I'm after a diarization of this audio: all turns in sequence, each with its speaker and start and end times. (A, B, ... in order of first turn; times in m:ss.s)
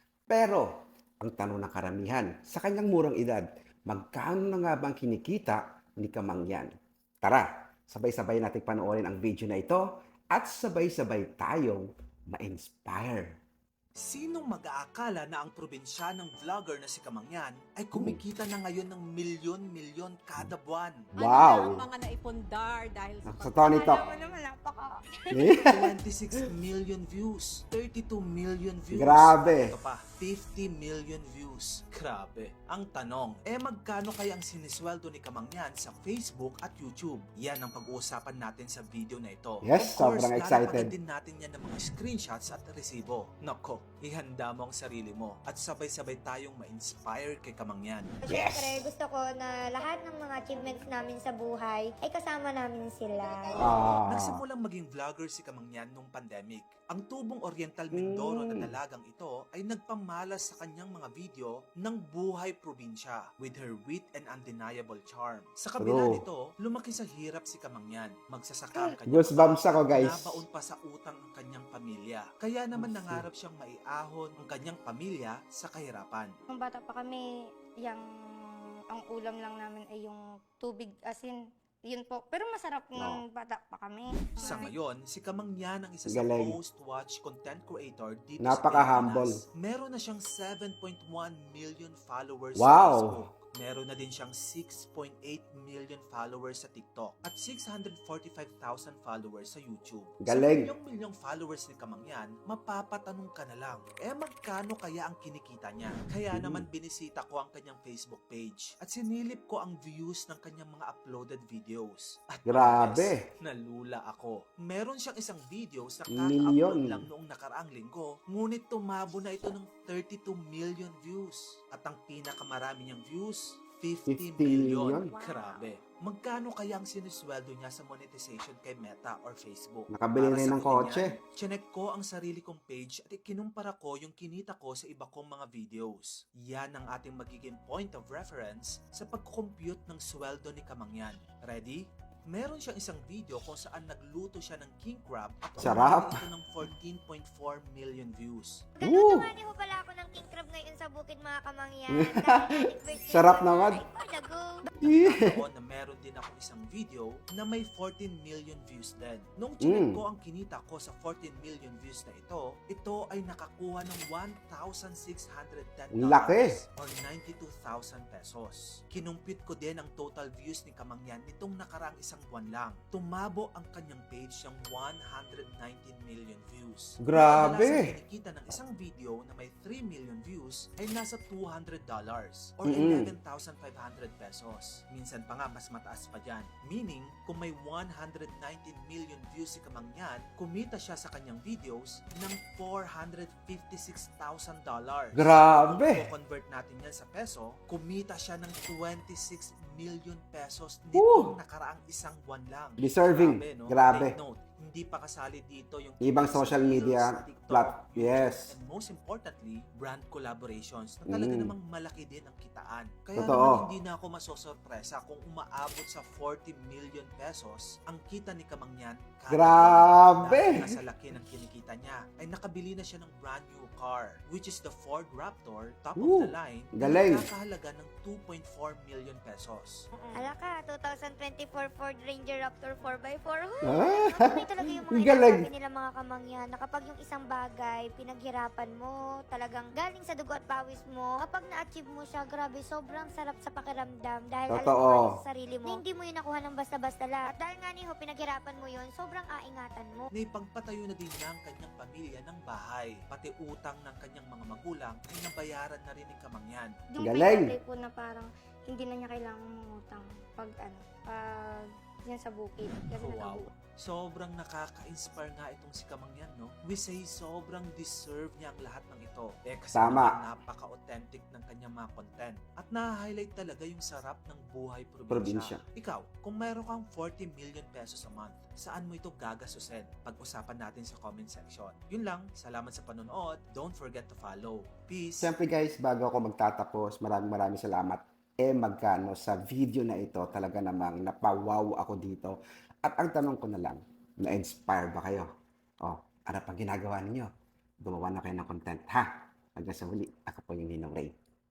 0:00.3-0:00.7 A
0:01.2-0:13.3 A
0:14.0-0:21.1 B
0:17.9-0:18.2 A
0:21.2-0:21.9 A
0:21.2-0:24.0 C
0:23.3-0:24.0 A
0:23.8-0:24.8 D
0:25.3-0:25.9 A
0:25.7-0:48.1 B
0:28.9-0:29.7 A
0:39.6-0:40.9 A
0:48.2-0:53.6 E
0:48.3-0:48.8 A
0:53.6-0:54.4 A
0:54.0-1:16.3 B
0:57.9-0:58.7 A
1:05.8-1:06.2 A
1:08.8-1:10.4 A
1:12.8-1:13.2 A
1:16.6-1:17.2 D
1:19.0-1:21.3 D
1:21.9-1:24.1 D
1:23.0-1:23.2 A
1:24.4-2:28.7 B
1:26.1-1:26.6 A
1:28.4-1:29.4 A
1:32.6-1:33.2 A
1:40.2-1:40.7 A
1:46.3-1:46.6 A
1:52.5-1:53.2 A
1:56.1-1:57.0 A
2:04.1-2:05.1 A
2:09.9-2:11.2 A
2:25.6-2:26.2 A
2:28.8-2:34.6 E
2:28.8-2:29.3 A
2:31.9-2:32.4 A
2:33.1-2:33.8 A
2:34.8-3:49.8 B
2:34.8-2:35.2 A
2:39.6-2:40.0 A
2:45.9-2:46.6 A
2:57.0-2:57.9 A
3:02.7-3:03.1 A
3:15.2-3:16.1 A
3:20.9-3:21.3 A
3:22.8-3:24.2 A
3:26.0-3:28.5 A
3:31.1-3:31.5 A
3:33.2-3:33.7 A
3:39.3-3:40.6 A
3:46.0-3:47.3 A
3:49.9-4:10.1 E
3:53.6-3:55.5 A
4:04.5-4:05.1 A
4:10.1-4:16.8 B
4:16.9-4:23.4 D
4:17.0-4:17.5 A
4:23.0-4:45.3 B
4:29.7-4:30.2 A
4:35.1-4:35.6 A
4:45.2-4:55.3 A
4:55.8-4:57.3 A
4:57.8-5:01.1 A